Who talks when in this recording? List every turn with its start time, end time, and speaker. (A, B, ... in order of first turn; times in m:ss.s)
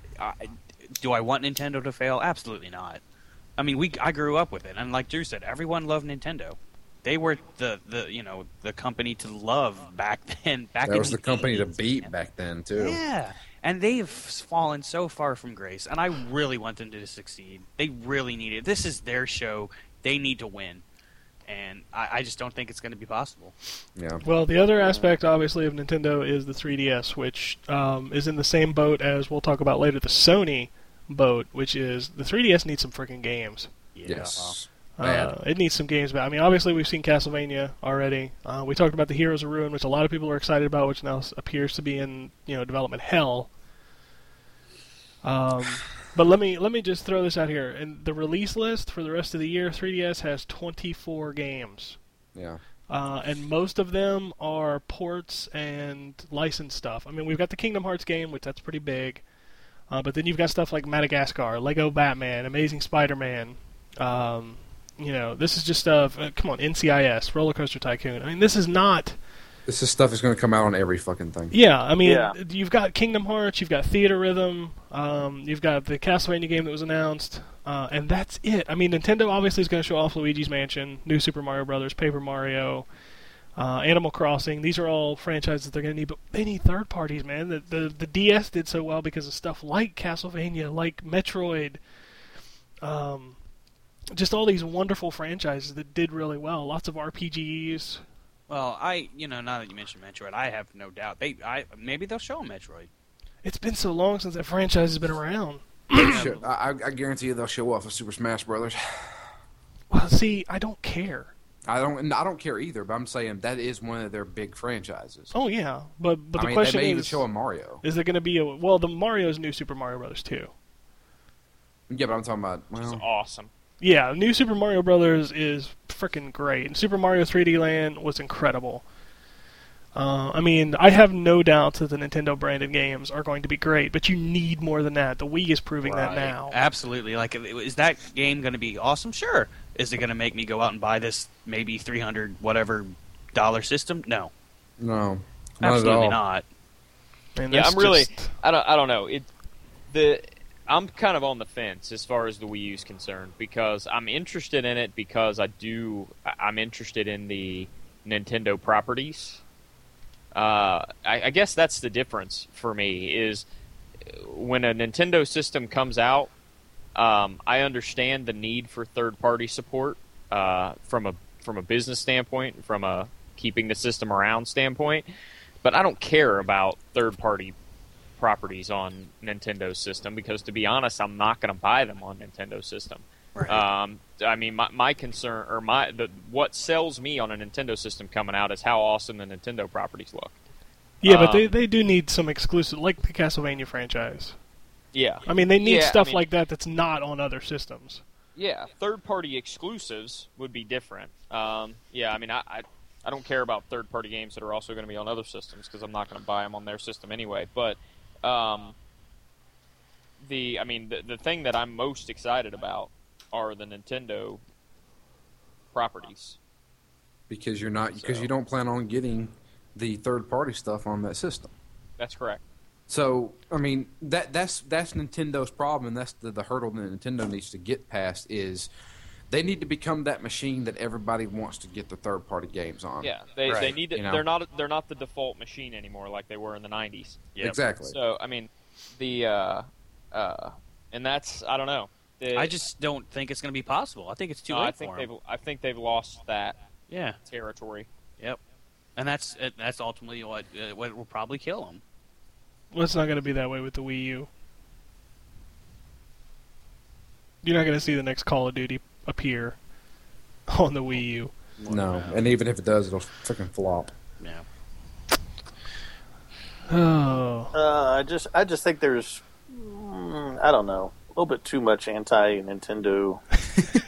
0:00.2-0:03.0 A
0:03.6-0:12.1 A
0:10.8-0:13.0 B
0:12.8-0:20.8 A
0:21.5-0:23.5 A
0:24.0-0:24.2 B
0:24.2-0:33.7 C
0:24.8-0:25.1 D
0:33.9-0:34.6 A
0:34.0-0:35.3 B
0:35.0-0:43.5 C
0:45.2-0:52.0 C
0:52.3-0:52.6 B
0:52.9-0:59.2 C
0:59.9-1:09.2 C
1:09.7-1:11.5 B
1:11.5-1:22.8 C
1:12.0-1:12.3 D
1:23.6-1:31.8 C
1:32.8-1:33.4 C
1:34.1-1:38.0 C
1:38.5-1:42.9 A
1:43.4-1:46.2 C
1:45.9-1:49.2 B
1:46.0-1:46.4 A
1:49.9-1:51.3 C
1:51.7-1:55.3 B
1:55.3-1:57.2 C
1:56.4-1:57.8 B
1:57.8-2:00.5 C
2:01.9-2:03.0 B
2:02.8-2:03.5 E
2:03.8-2:08.8 C
2:09.9-2:16.6 C
2:15.8-2:24.3 A
2:24.8-2:26.2 B
2:25.6-2:26.4 A
2:27.4-2:28.3 C
2:27.5-2:29.3 E
2:29.9-2:39.4 E
2:40.3-2:43.4 E
2:44.1-2:46.3 E
2:46.9-2:55.0 E
2:55.6-2:57.5 E
2:58.2-3:10.4 E
3:03.3-3:03.6 A
3:11.0-3:14.4 C
3:11.0-3:11.5 E
3:14.9-3:16.2 E
3:15.2-3:18.0 C
3:18.4-3:28.8 E
3:30.2-3:34.4 E
3:35.7-3:36.4 E
3:37.3-3:41.5 B
3:38.0-3:38.3 A
3:42.0-3:42.4 E
3:42.9-3:48.7 B
3:49.3-3:54.2 B
3:53.0-3:57.3 E
3:53.5-3:53.7 A
3:57.4-3:58.0 B
3:57.8-4:02.5 E
4:02.3-4:05.1 A
4:04.5-4:06.6 E
4:06.9-4:07.2 A
4:07.2-4:07.9 E
4:09.0-4:11.8 A
4:12.7-4:14.3 C
4:17.4-4:19.6 C
4:20.5-4:21.3 C
4:21.6-4:22.2 A
4:21.7-4:23.9 B
4:26.7-4:27.5 C
4:27.5-4:33.2 D